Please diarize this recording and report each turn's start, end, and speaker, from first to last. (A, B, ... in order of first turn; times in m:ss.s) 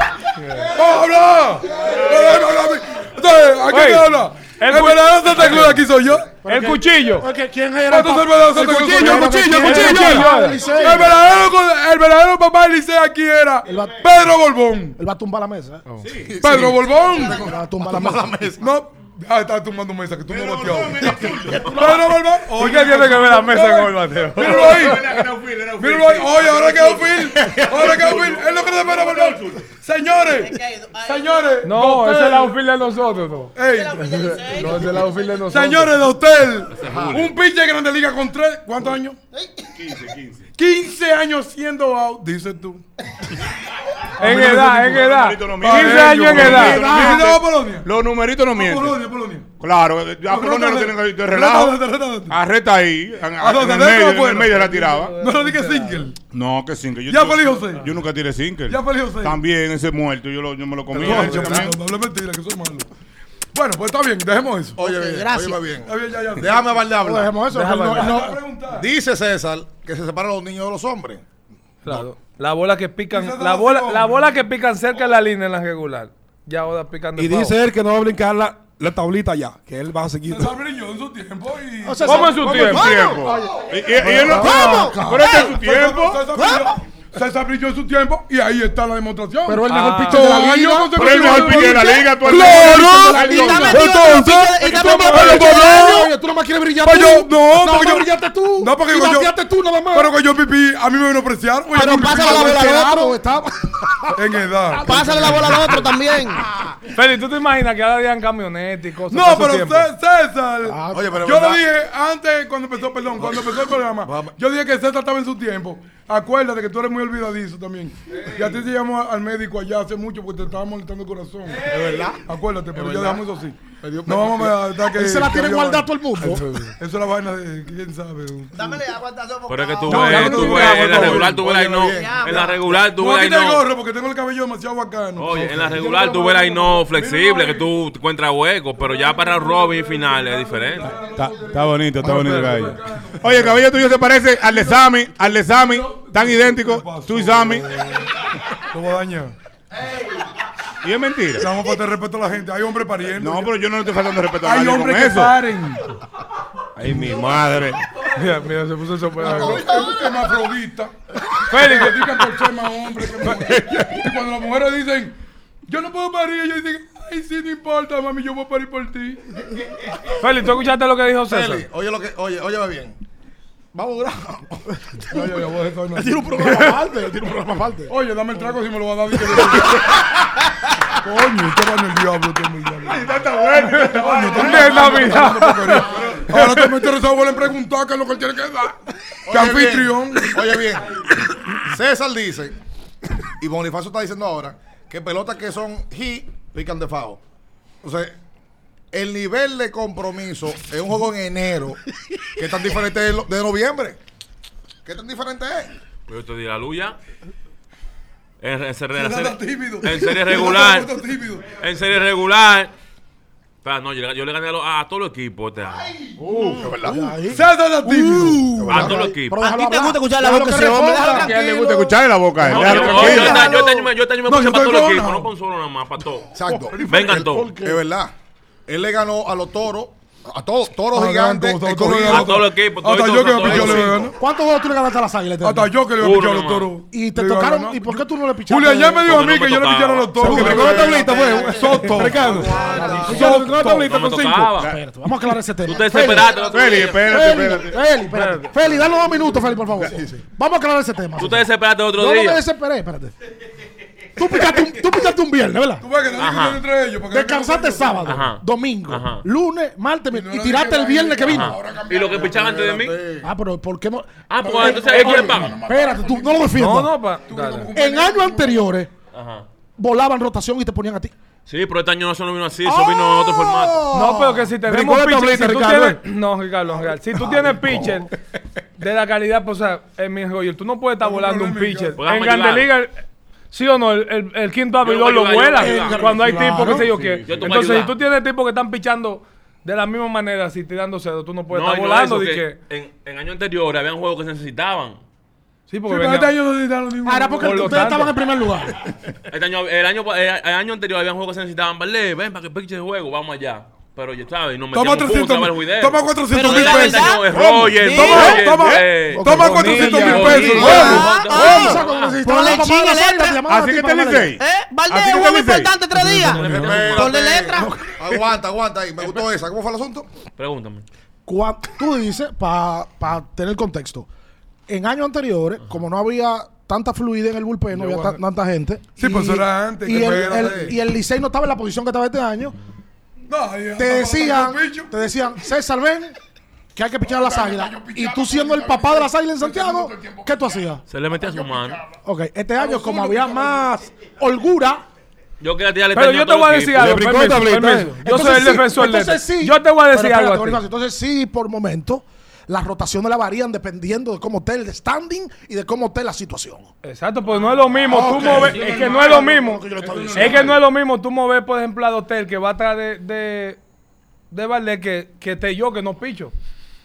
0:00.4-0:00.7 A
0:00.7-0:06.3 B
0:01.9-0:02.2 C
0:03.7-0:05.9 A
0:06.3-0:11.2 D
0:06.4-0:07.3 A
0:07.9-0:15.0 B
0:09.2-0:10.7 A
0:13.6-0:14.3 D
0:15.0-0:15.8 D
0:16.0-0:16.7 E
0:16.3-0:18.7 C
0:16.4-0:17.5 B
0:17.2-0:18.3 D
0:18.6-0:25.3 B
0:20.3-0:22.1 E
0:22.5-0:25.0 A
0:24.4-0:29.7 E
0:25.8-0:32.6 B
0:30.2-0:31.7 F
0:31.6-0:33.6 A
0:33.6-0:34.3 B
0:33.6-0:35.4 F
0:34.2-0:36.0 A
0:35.5-0:39.2 B
0:36.7-0:37.3 G
0:36.9-0:37.3 C
0:39.3-0:39.8 F
0:39.8-0:40.4 E
0:40.6-0:42.8 B
0:44.2-0:46.8 A
0:44.2-0:45.0 B
0:44.2-0:49.0 E
0:45.6-0:47.9 B
0:46.6-0:47.3 D
0:48.5-0:49.5 B
0:49.6-0:55.2 E
0:50.3-0:52.4 B
0:53.4-0:56.2 B
0:54.5-0:56.1 A
0:56.3-1:01.8 E
0:57.1-0:57.9 B
0:58.7-0:59.4 B
1:00.9-1:02.9 B
1:01.0-1:01.8 C
1:03.5-1:04.8 B
1:04.8-1:07.4 C
1:04.8-1:05.8 F
1:05.9-1:07.0 B
1:07.0-1:08.3 D
1:07.5-1:08.1 A
1:07.9-1:08.9 B
1:08.0-1:11.2 C
1:11.8-1:17.6 A
1:13.1-1:14.3 B
1:17.2-1:20.5 H
1:20.3-1:22.6 B
1:21.8-1:22.7 D
1:22.0-1:22.9 A
1:22.4-1:26.3 E
1:22.7-1:23.7 F
1:24.0-1:25.3 D
1:24.0-1:36.1 B
1:24.3-1:25.6 F
1:26.3-1:26.8 F
1:29.5-1:33.9 D
1:29.7-1:30.5 A
1:30.9-1:33.4 E
1:31.9-1:32.6 F
1:33.2-1:36.1 F
1:34.7-1:40.1 D
1:36.8-1:39.3 B
1:39.9-1:42.7 B
1:41.7-1:46.8 D
1:41.8-1:43.2 F
1:44.1-1:45.0 B
1:44.8-1:46.4 F
1:47.0-1:49.9 A
1:49.1-2:01.7 B
1:50.6-1:51.2 D
1:50.9-1:51.6 C
1:53.2-1:54.4 C
2:01.6-2:02.2 C
2:02.3-2:08.8 B
2:02.8-2:03.2 C
2:03.8-2:04.5 C
2:04.9-2:06.5 D
2:08.5-2:10.4 F
2:09.5-2:13.7 G
2:09.9-2:11.4 B
2:10.1-2:12.8 C
2:10.2-2:11.0 E
2:11.9-2:12.7 F
2:12.7-2:17.7 B
2:15.2-2:21.0 G
2:18.8-2:23.6 B
2:20.9-2:27.7 E
2:22.0-2:22.7 A
2:24.4-2:29.4 B
2:30.8-2:31.5 E
2:31.4-2:33.5 B
2:33.2-2:35.4 E
2:34.4-2:35.8 B
2:36.8-2:37.8 E
2:38.1-2:39.7 A
2:39.2-2:41.0 B
2:39.2-2:40.4 F
2:41.5-2:42.2 A
2:41.5-2:45.2 B
2:45.7-2:49.4 B
2:50.2-2:51.6 A
2:51.3-2:53.0 C
2:53.7-2:54.8 C
2:55.1-2:56.3 B
2:55.1-2:55.4 D
2:55.9-2:58.0 D
2:57.9-3:00.0 B
3:01.0-3:08.8 B
3:02.8-3:06.3 E
3:04.3-3:06.7 A
3:09.3-3:12.6 C
3:09.3-3:10.4 B
3:13.3-3:17.2 C
3:17.8-3:18.2 C
3:18.9-3:21.8 C
3:22.3-3:24.0 C
3:24.8-3:25.7 C
3:26.1-3:27.0 G
3:28.4-3:30.9 G
3:29.0-3:31.6 B
3:31.5-3:32.7 G
3:33.6-3:36.0 G
3:36.2-3:37.1 C
3:36.4-3:36.7 F
3:36.8-3:37.4 D
3:37.3-3:38.7 B
3:37.9-3:38.6 F
3:38.2-3:41.3 D
3:38.3-3:39.1 C
3:38.7-3:39.4 G
3:39.4-3:43.9 F
3:41.0-3:43.6 E
3:42.4-3:47.5 G
3:44.2-3:45.3 B
3:46.3-3:48.1 C
3:46.4-3:47.8 D
3:48.7-3:52.4 C
3:50.9-3:54.2 B
3:52.0-3:54.1 G
3:53.4-3:55.7 D
3:53.5-3:54.1 C
3:55.4-4:02.3 B
3:56.0-3:56.7 G
3:56.9-3:59.2 D
3:59.0-4:00.7 G
4:00.2-4:03.9 D
4:00.3-4:01.2 E
4:00.5-4:01.5 C
4:00.8-4:03.3 F
4:00.8-4:01.3 H
4:01.9-4:02.7 H
4:02.9-4:04.7 G
4:03.1-4:03.9 B
4:03.1-4:03.7 E
4:03.2-4:04.4 H
4:04.4-4:04.8 E
4:04.6-4:06.4 D
4:05.6-4:07.3 G
4:05.7-4:07.0 F
4:06.5-4:07.8 E
4:07.0-4:13.1 D
4:08.1-4:08.5 A
4:09.8-4:10.2 C
4:11.2-4:12.4 G
4:14.2-4:15.9 D
4:15.8-4:18.3 B
4:16.2-4:16.6 G
4:17.1-4:21.6 D
4:18.1-4:19.2 G
4:20.1-4:22.6 B
4:21.2-4:23.0 G
4:22.0-4:23.3 C
4:23.2-4:26.9 D
4:24.3-4:25.6 G
4:24.4-4:26.5 B
4:26.5-4:27.7 A
4:27.3-4:28.7 B
4:27.7-4:28.9 D
4:29.1-4:29.5 G
4:29.8-4:31.1 D
4:31.5-4:33.9 G
4:32.6-4:34.6 D
4:33.9-4:38.1 A
4:34.7-4:36.0 H
4:37.2-4:38.0 D
4:38.8-4:43.0 A
4:41.0-4:42.0 B
4:42.0-4:42.7 G
4:43.5-4:52.6 A
4:44.8-4:46.2 G
4:45.6-4:46.8 D
4:46.2-4:46.9 B
4:46.4-4:47.8 E
4:47.2-4:48.0 G
4:51.5-4:55.0 G
4:55.7-4:56.3 A
4:55.8-4:57.9 B
4:57.0-4:58.8 D
4:57.4-4:58.1 A
4:59.3-5:12.3 G
5:04.7-5:07.2 B
5:06.3-5:08.6 F
5:07.3-5:08.2 E
5:08.0-5:11.1 B
5:09.1-5:14.4 D
5:09.4-5:11.0 A
5:10.6-5:11.0 C
5:10.7-5:13.4 F
5:11.3-5:11.8 E
5:13.5-5:15.7 E
5:14.4-5:17.7 F
5:16.0-5:16.5 D
5:16.3-5:17.2 G
5:16.4-5:16.8 B
5:16.5-5:20.1 C
5:17.6-5:18.2 D
5:20.4-5:20.8 G
5:21.3-5:24.1 D
5:24.7-5:32.6 D
5:27.7-5:28.2 B
5:29.0-5:30.8 B
5:33.3-5:34.9 B
5:33.8-5:36.2 D
5:36.8-5:40.8 D
5:37.0-5:40.5 B
5:40.9-5:41.8 G
5:41.2-5:41.5 B
5:41.9-5:44.8 D
5:42.6-5:43.5 B
5:45.4-5:47.0 G
5:45.9-5:50.6 A
5:46.8-5:48.3 E
5:48.0-5:56.7 D
5:56.8-6:03.6 A
5:57.9-6:00.6 D
5:57.9-6:00.6 B
6:04.3-6:06.3 A